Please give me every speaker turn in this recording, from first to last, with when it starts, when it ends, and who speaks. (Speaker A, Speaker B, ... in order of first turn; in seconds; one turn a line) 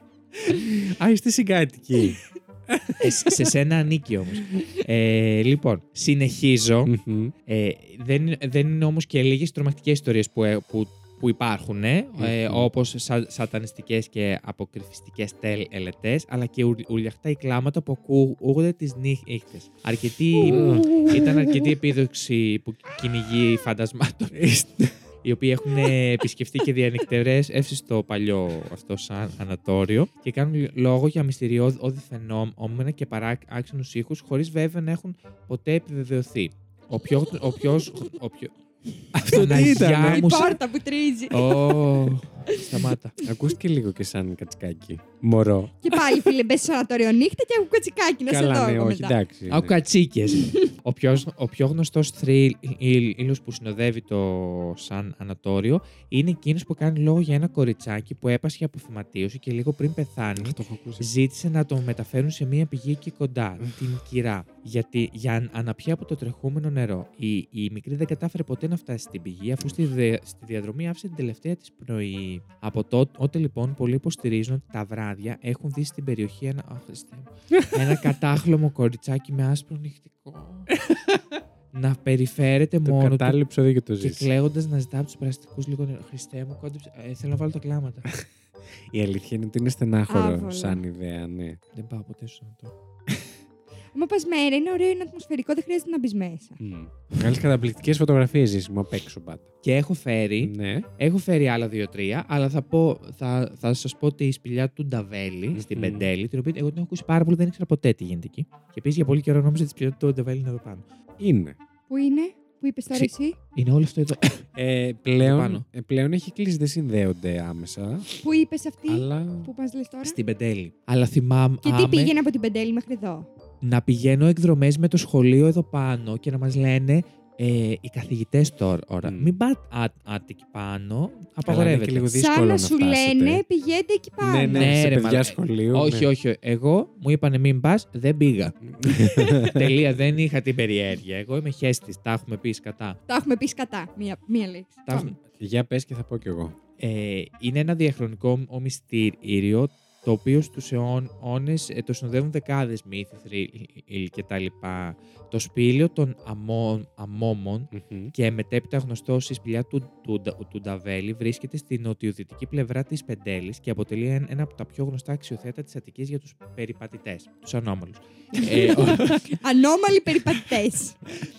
Speaker A: 0.3-3.5
Speaker B: 3.0-6.9
Speaker A: 6.8-7.3
Speaker B: 7.5-24.5
Speaker A: 12.2-12.7
Speaker A: 20.4-21.7
Speaker A: 24.3-24.9
Speaker B: 25.2-38.5
Speaker B: 39.1-40.6
Speaker A: 39.1-40.3
Speaker C: 39.3-41.8
Speaker B: 41.3-43.2
Speaker C: 42.5-42.8
Speaker A: 43.2-45.8
Speaker C: 45.8-49.1
Speaker A: 48.3-49.8
Speaker B: 49.5-80.7
Speaker C: 50.3-50.7
Speaker A: 60.4-61.1
Speaker B: 81.7-83.4
Speaker A: 82.8-84.3
Speaker B: 84.0-88.1
Speaker A: 88.9-91.6
Speaker C: 90.1-90.8
Speaker B: 91.7-92.7
Speaker C: 93.9-96.6
Speaker A: 96.6-99.5
Speaker B: 99.6-110.8
Speaker A: 100.4-100.9
Speaker A: 105.5-106.1
Speaker A: 111.2-111.6
Speaker C: 111.9-113.4
Speaker B: 112.9-114.4
Speaker A: 114.5-118.1
Speaker B: 115.2-115.6
Speaker C: 118.2-120.2
Speaker A: 118.9-119.5
Speaker B: 120.0-122.1
Speaker C: 121.6-123.3
Speaker B: 123.6-132.1
Speaker A: 129.0-129.3
Speaker A: 131.4-133.4
Speaker C: 132.1-134.7
Speaker A: 134.2-136.1
Speaker B: 134.5-143.0
Speaker A: 138.7-139.8
Speaker C: 143.1-145.1
Speaker B: 144.9-145.2
Speaker A: 145.4-146.6
Speaker B: 146.8-169.3
Speaker A: 157.7-158.1
Speaker C: 169.3-171.0